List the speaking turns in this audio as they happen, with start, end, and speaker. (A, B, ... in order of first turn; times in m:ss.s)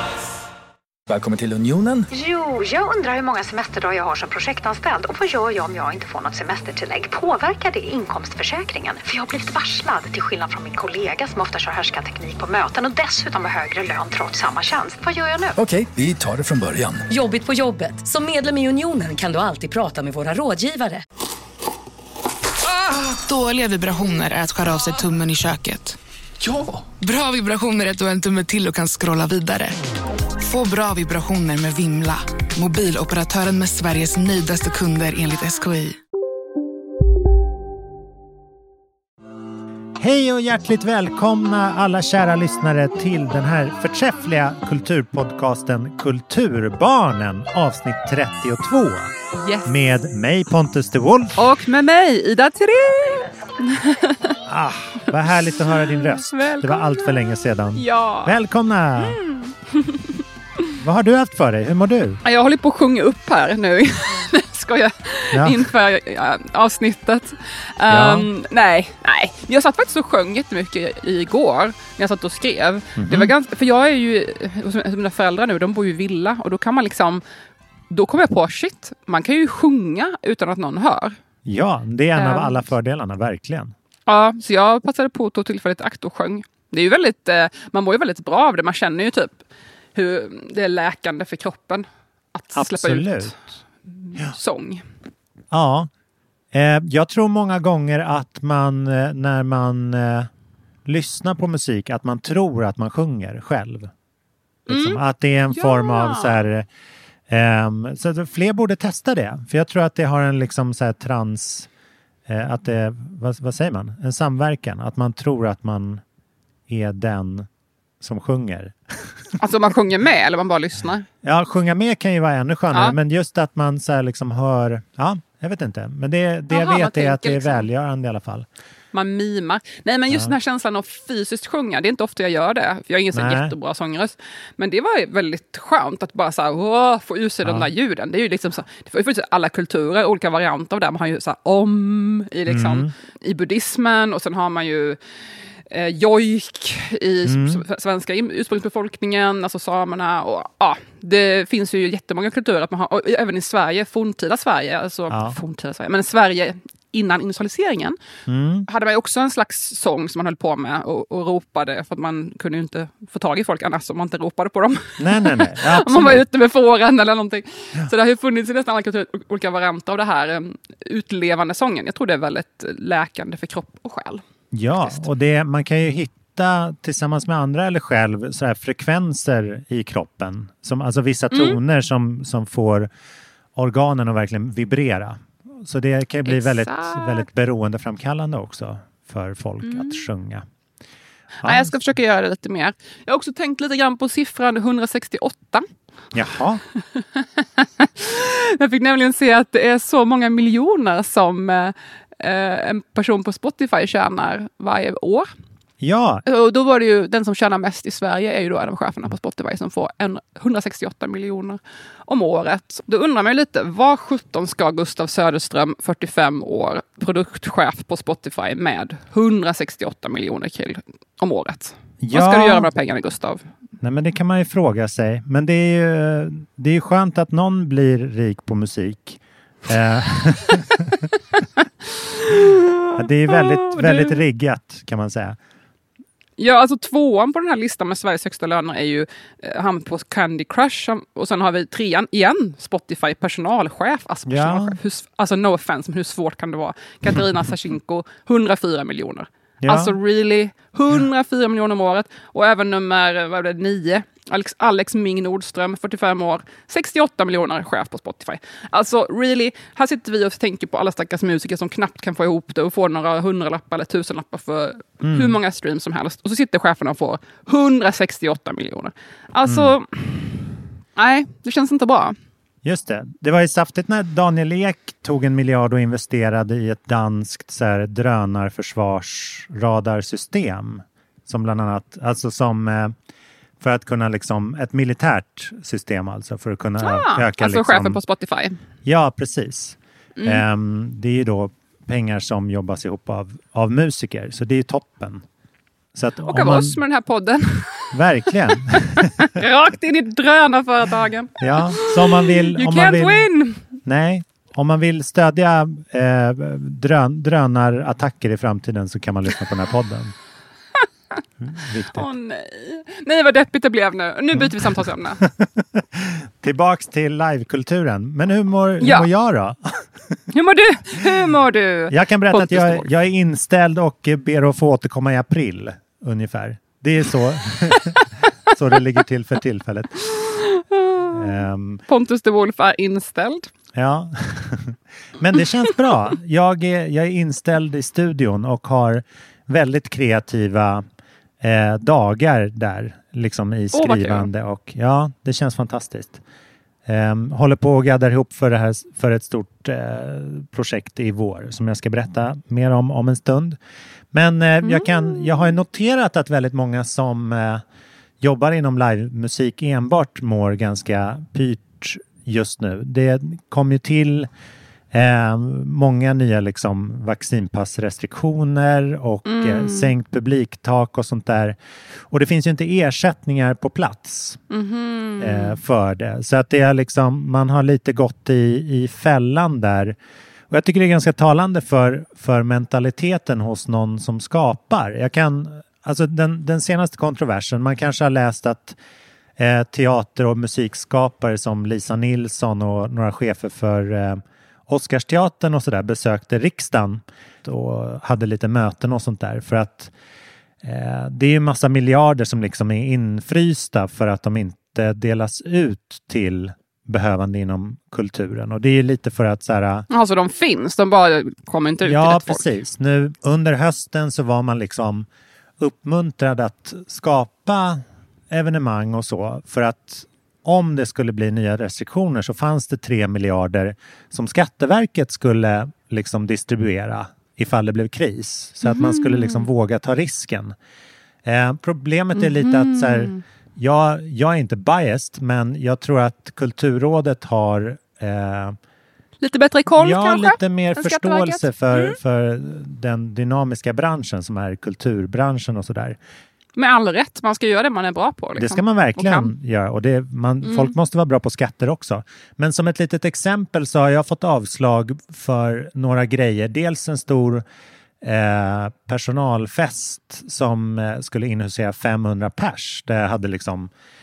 0:01.1-0:02.1 A
0:02.1-0:15.6 B
0:15.6-0:17.0 A
0:17.1-0:21.0 C
0:22.6-0:26.0 D
0:27.0-0:29.8 D
0:30.4-0:36.0 D
0:40.0-0:49.1 E
0:49.4-0:49.7 F
0:49.6-0:51.4 E
0:51.4-0:54.4 F
0:54.5-0:59.2 E
0:55.8-0:57.2 F
0:57.8-0:58.3 F
0:59.0-1:00.2 F
1:00.8-1:02.2 E
1:02.2-1:17.2 F
1:05.3-1:05.7 E
1:07.9-1:08.3 E
1:13.0-1:13.3 E
1:17.9-1:21.2 F
1:21.4-1:23.7 E
1:22.2-1:22.6 F
1:24.1-1:29.4 F
1:30.0-1:34.8 F
1:32.6-1:33.4 E
1:35.5-1:35.9 E
1:36.5-1:40.3 E
1:40.9-1:43.9 E
1:44.7-1:46.4 F
1:44.7-1:46.7 E
1:47.3-1:51.7 E
1:52.3-1:56.0 E
1:56.7-1:57.5 E
1:58.0-1:59.1 E
1:59.4-2:01.1 F
2:01.2-2:08.5 E
2:06.5-2:07.7 F
2:08.9-2:25.0 F
2:13.1-2:13.5 E
2:22.5-2:22.9 E
2:25.7-2:38.0 F
2:27.2-2:27.6 E
2:35.1-2:35.4 E
2:38.3-2:38.7 E
2:38.7-2:54.2 F
2:45.0-2:46.2 E
2:54.5-3:02.9 E
2:54.8-2:55.0 F
3:01.3-3:01.6 F
3:03.6-3:10.4 E
3:06.2-3:07.3 F
3:09.6-3:10.0 F
3:11.4-3:11.7 E
3:11.4-3:15.7 F
3:16.1-3:16.6 E
3:16.9-3:25.3 F
3:25.8-3:26.2 E
3:26.2-3:43.4 F
3:42.0-3:42.7 E
3:43.8-3:50.9 E
3:52.2-3:54.2 F
3:53.0-3:55.4 E
3:56.4-4:32.2 F
4:04.3-4:04.8 E
4:09.6-4:09.9 E
4:25.0-4:25.3 E
4:29.4-4:29.7 E
4:32.6-4:42.9 E
4:43.6-4:48.0 E
4:46.8-4:48.6 F
4:48.8-4:55.2 E
4:50.2-4:50.4 F
4:55.9-4:56.8 E
4:56.2-5:03.6 F
4:57.9-4:59.3 E
5:01.4-5:03.3 E
5:03.8-5:10.1 E
5:11.4-5:12.1 E
5:11.9-5:15.2 F
5:14.3-5:20.2 E
5:18.8-5:19.1 F
5:20.3-5:22.9 F
5:21.9-5:30.0 E
5:27.7-5:28.0 F
5:30.1-5:33.5 F
5:31.1-5:31.8 E
5:33.7-5:40.8 E
5:41.4-5:46.2 E
5:43.7-5:44.3 F
5:46.8-5:53.6 E
5:54.1-5:57.6 E
5:54.6-5:55.3 F
5:58.2-6:04.3 E
6:04.9-6:11.6 E
6:09.2-6:09.9 F
6:12.1-6:14.4 E
6:14.5-6:15.6 F
6:15.2-6:20.0 E
6:20.5-6:28.8 E
6:29.4-6:39.9 E
6:40.6-6:49.9 E
6:49.9-6:52.5 F
6:51.8-6:55.1 E
6:55.6-7:10.5 E
7:08.6-7:09.5 F
7:11.2-7:18.6 E
7:12.1-7:13.2 F
7:19.2-7:22.0 F
7:19.8-7:26.0 E
7:26.6-7:29.3 F
7:28.4-7:37.4 E
7:30.4-7:30.7 F
7:38.0-7:43.7 E